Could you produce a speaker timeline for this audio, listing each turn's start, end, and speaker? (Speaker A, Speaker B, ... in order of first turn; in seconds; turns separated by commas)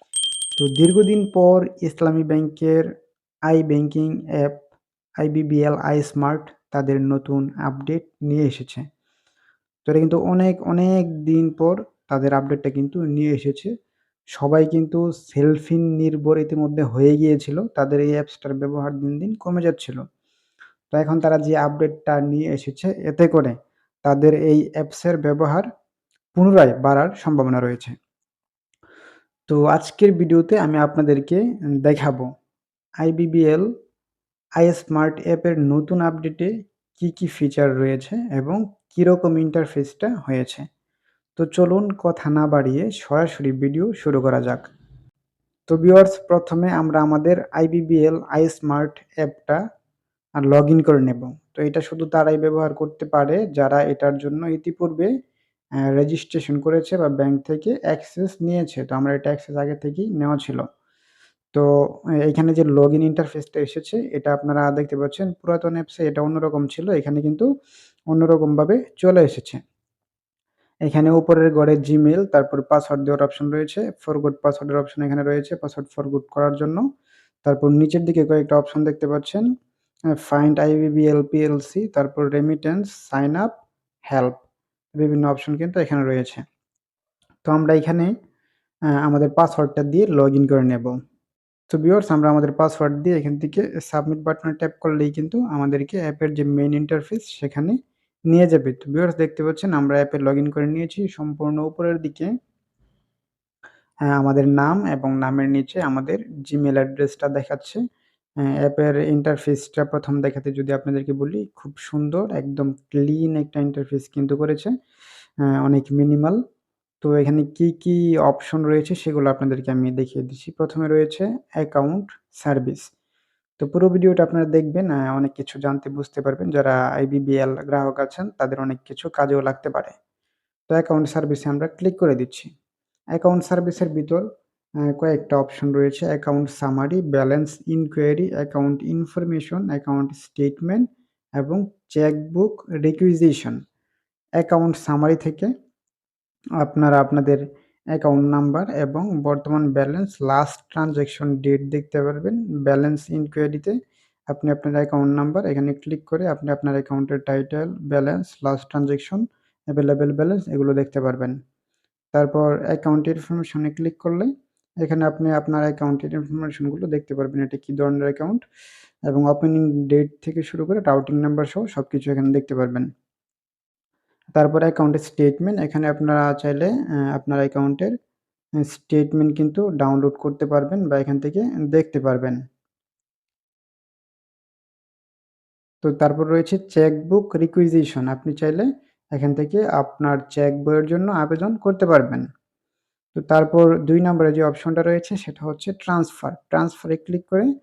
Speaker A: 0.6-2.9, Speaker A: 3.5-4.7, Speaker A: 5.2-8.8, Speaker A: 9.8-13.7, Speaker A: 14.3-20.0, Speaker A: 20.9-25.7, Speaker A: 26.3-27.9, Speaker A: 29.5-32.3, Speaker A: 33.0-33.7, Speaker A: 34.6-40.6, Speaker A: 41.4-44.7, Speaker A: 45.7-49.6, Speaker A: 50.4-55.1, Speaker A: 55.8-60.6, Speaker A: 61.5-67.5, Speaker A: 68.1-69.6, Speaker A: 70.8-76.8, Speaker A: 77.4-79.4, Speaker A: 80.2-83.5, Speaker A: 84.1-84.4, Speaker A: 84.9-86.4, Speaker A: 87.4-88.1, Speaker A: 89.0-91.0, Speaker A: 91.7-97.8, Speaker A: 98.3-102.3, Speaker A: 104.1-107.8, Speaker A: 108.6-114.7, Speaker A: 115.5-116.4, Speaker A: 117.0-122.9, Speaker A: 123.6-129.9, Speaker A: 130.7-132.5, Speaker A: 133.1-134.2, Speaker A: 134.8-140.8, Speaker A: 141.4-143.6, Speaker A: 144.4-145.5, Speaker A: 146.6-153.7, Speaker A: 154.3-161.4, Speaker A: 162.1-164.3, Speaker A: 164.8-168.4, Speaker A: 169.1-172.9, Speaker A: 174.3-177.9, Speaker A: 178.6-182.4, Speaker A: 185.8-192.3, Speaker A: 193.1-197.5